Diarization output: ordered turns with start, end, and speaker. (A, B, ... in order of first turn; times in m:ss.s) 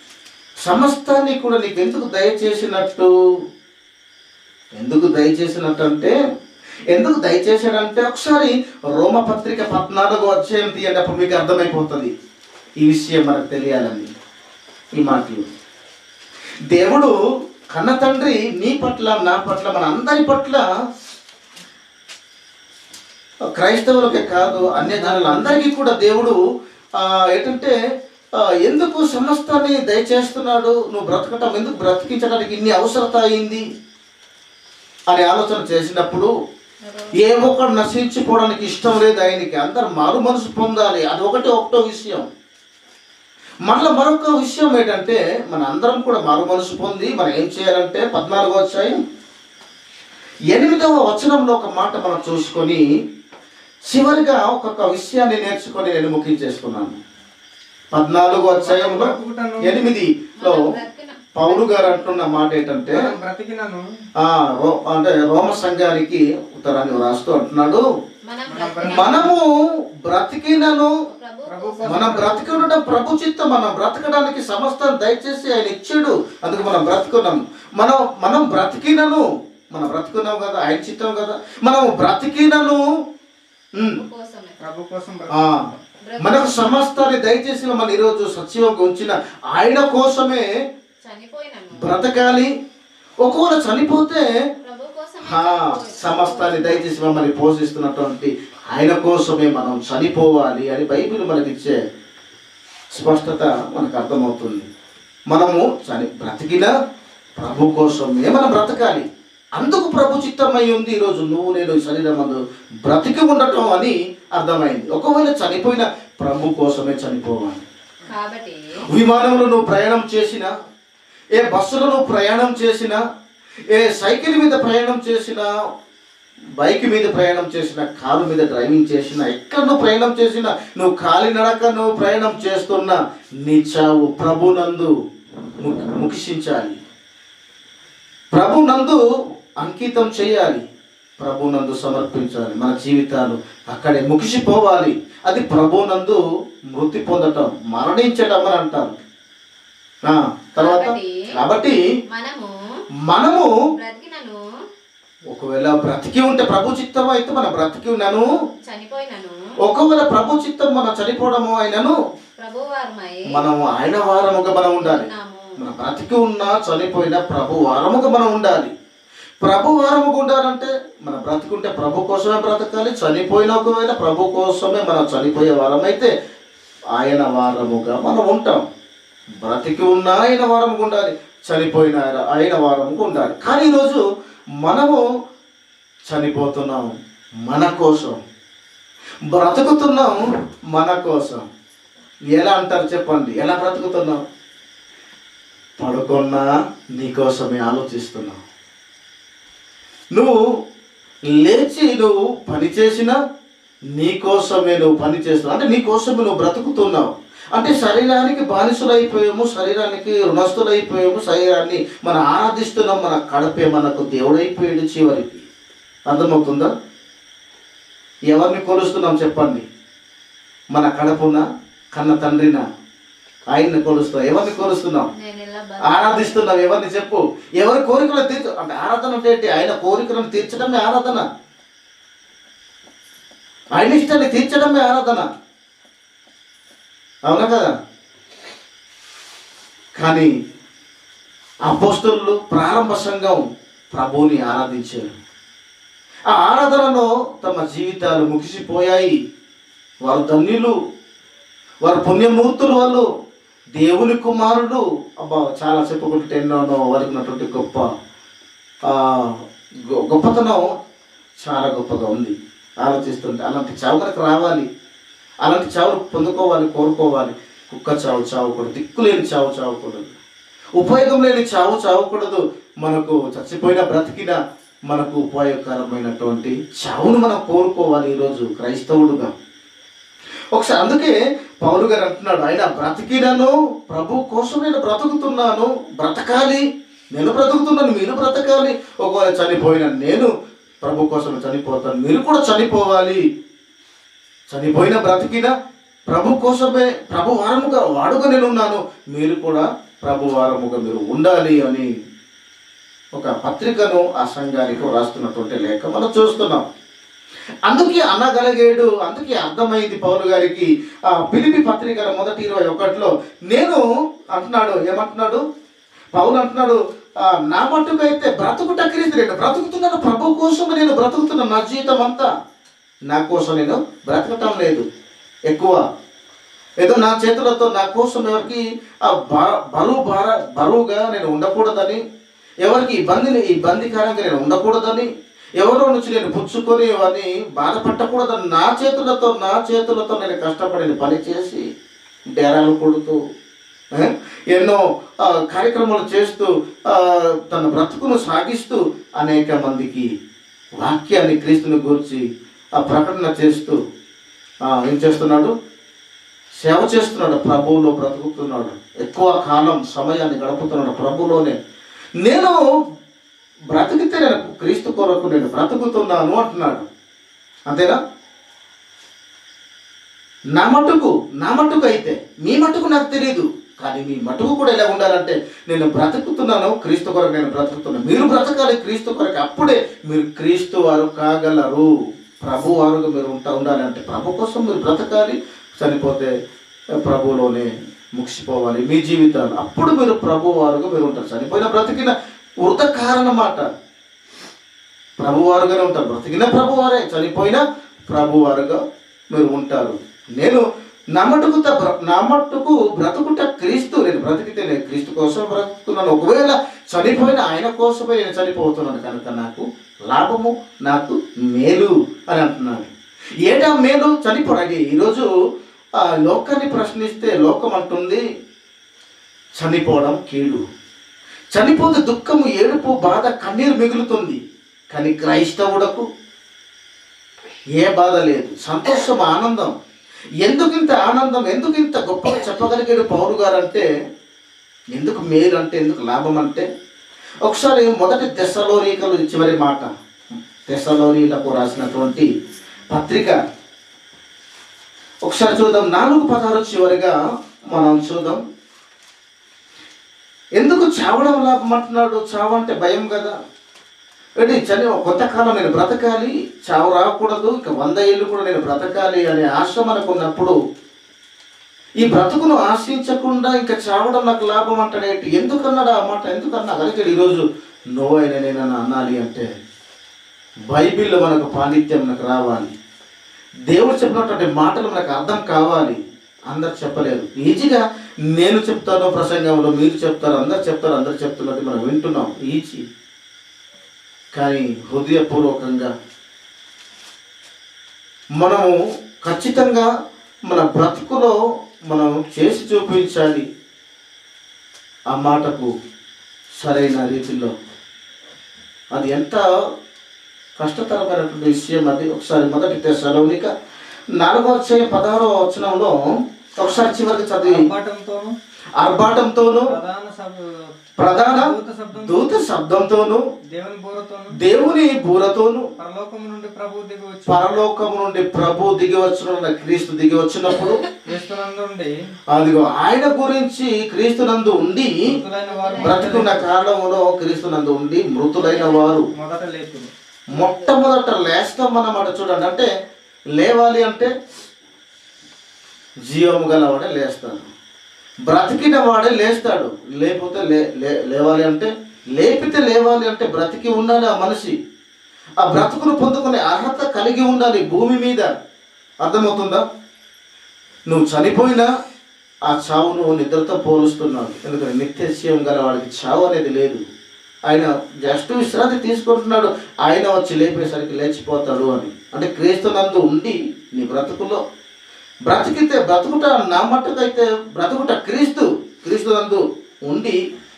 0:00.6-0:03.1 A
0:04.8-0:06.1 A
0:06.9-0:12.1 A
0:12.8-0:14.1 A
0:15.0-0:15.4 A
0:16.7-0:17.1 A
0:17.7-0:20.6 A
0:23.6-0:26.4 A
0:27.0-0:27.7 A
0:28.6-0:33.6 A
0:35.1-0:36.3 A
0:36.8-0:37.2 B
0:37.2-0:42.2 A
0:43.7-0:49.0 A
0:50.5-0:52.8 A
0:53.9-0:57.0 A
0:57.9-1:00.6 A
0:58.6-0:59.8 C
1:00.4-1:02.2 B
1:01.4-1:03.1 A
1:02.9-1:03.8 C
1:04.2-1:07.8 A
1:08.3-1:09.3 B
1:08.5-1:09.4 C
1:08.9-1:10.9 A
1:11.1-1:12.2 B
1:11.5-1:12.8 C
1:11.9-1:19.2 A
1:19.7-1:22.8 A
1:23.8-1:24.6 B
1:24.6-1:25.3 C
1:25.3-1:25.6 A
1:26.1-1:26.7 B
1:26.2-1:30.5 A
1:31.0-1:32.0 B
1:31.8-1:32.5 A
1:33.2-1:34.3 A
1:34.6-1:36.9 B
1:35.2-1:41.8 A
1:42.9-1:44.7 A
1:45.3-1:46.7 A
1:47.4-1:49.0 A
1:49.6-1:57.6 A
1:58.0-1:58.6 B
1:58.9-2:00.5 A
2:01.4-2:03.0 A
2:03.7-2:05.5 A
2:06.6-2:14.9 A
2:15.6-2:16.8 A
2:18.3-2:19.0 A
2:19.6-2:20.6 A
2:21.2-2:26.2 A
2:26.7-2:28.9 A
2:30.1-2:31.8 A
2:30.6-2:31.1 B
2:32.1-2:32.5 B
2:33.1-2:33.5 A
2:33.8-2:34.4 B
2:35.3-2:38.2 A
2:38.7-2:39.3 B
2:39.6-2:41.9 A
2:42.4-2:43.3 B
2:43.3-2:48.7 A
2:44.8-2:45.5 B
2:49.4-2:56.1 A
2:57.0-2:58.6 A
2:59.4-3:04.0 A
3:04.6-3:05.0 A
3:06.1-3:06.9 A
3:07.5-3:08.2 A
3:09.3-3:10.2 A
3:10.7-3:11.4 A
3:12.3-3:14.2 A
3:15.8-3:16.5 A
3:17.0-3:18.4 A
3:21.4-3:23.2 A
3:24.0-3:35.4 A
3:36.1-3:36.7 A
3:38.3-3:39.6 A
3:40.7-3:42.6 A
3:43.5-3:45.1 A
3:45.1-3:46.4 B
3:45.8-3:51.3 A
3:53.8-3:55.3 A
3:57.3-3:57.7 A
4:00.0-4:00.3 A
4:01.7-4:03.4 A
4:03.9-4:05.1 A
4:06.3-4:09.1 A
4:10.0-4:10.7 A
4:11.8-4:13.0 A
4:13.8-4:17.9 A
4:18.9-4:19.4 A
4:19.9-4:20.6 A
4:21.4-4:24.7 A
4:25.4-4:30.2 A
4:30.8-4:34.4 A
4:34.9-4:39.3 A
4:40.5-4:46.6 A
4:47.2-4:50.3 A
4:50.8-4:53.2 A
4:54.5-4:55.5 A
4:56.1-5:01.9 A
5:03.2-5:06.6 A
5:07.7-5:13.8 A
5:14.4-5:15.4 A
5:16.1-5:16.8 A
5:17.3-5:22.3 A
5:23.1-5:24.8 A
5:25.5-5:25.8 A
5:26.8-5:32.0 A
5:32.6-5:35.1 A
5:35.6-5:41.6 A
5:42.4-5:43.2 A
5:44.0-5:44.8 A
5:45.3-5:50.1 A
5:50.8-5:52.2 A
5:52.8-5:53.8 A
5:54.7-5:55.5 A
5:56.6-6:01.6 A
6:02.2-6:02.6 A
6:03.7-6:06.8 A
6:07.7-6:08.0 A
6:10.5-6:21.9 A
6:22.4-6:26.3 A
6:27.0-6:33.7 A
6:35.2-6:38.8 A
6:39.3-6:40.6 A
6:41.2-6:52.9 A
6:53.5-6:55.3 A
6:56.1-6:58.2 A
6:59.6-7:00.6 A
7:01.5-7:04.4 A
7:04.9-7:06.0 A
7:07.8-7:09.7 A
7:10.4-7:13.8 A
7:14.9-7:16.7 A
7:17.4-7:19.9 A
7:20.7-7:22.3 A
7:22.9-7:23.4 A
7:25.2-7:27.1 A
7:27.7-7:28.4 A
7:30.6-7:33.3 A
7:34.4-7:40.6 A
7:42.0-7:47.4 A
7:48.0-7:49.5 A
7:50.7-7:52.7 A
7:53.7-7:56.0 A
7:56.5-7:57.8 A
7:58.4-8:02.8 A
8:04.4-8:05.9 A
8:08.4-8:08.7 A
8:09.2-8:09.9 A
8:10.5-8:11.4 A
8:11.9-8:13.4 A
8:15.1-8:15.7 A
8:16.6-8:17.5 A
8:18.9-8:19.4 A
8:20.6-8:23.5 A
8:24.2-8:25.9 A
8:26.6-8:27.6 A
8:26.8-8:28.3 C
8:28.8-8:29.7 A
8:29.7-8:30.4 C
8:31.0-8:33.2 A
8:31.2-8:32.4 C
8:33.5-8:34.4 C
8:34.4-8:35.6 A
8:35.8-8:37.4 C
8:37.3-8:40.8 A
8:41.0-8:41.9 C
8:42.3-8:45.0 A
8:45.0-8:46.5 C
8:45.5-8:46.2 B
8:45.8-8:49.1 A
8:48.4-8:48.9 B
8:49.1-8:49.9 C
8:50.3-8:52.7 A
8:50.3-8:50.8 B
8:53.4-8:54.1 A
8:56.1-8:57.4 A
8:58.3-9:04.5 A
9:05.4-9:08.3 A
9:09.0-9:09.6 A
9:10.9-9:11.7 A
9:12.5-9:16.8 A
9:17.5-9:24.4 A
9:25.3-9:30.2 A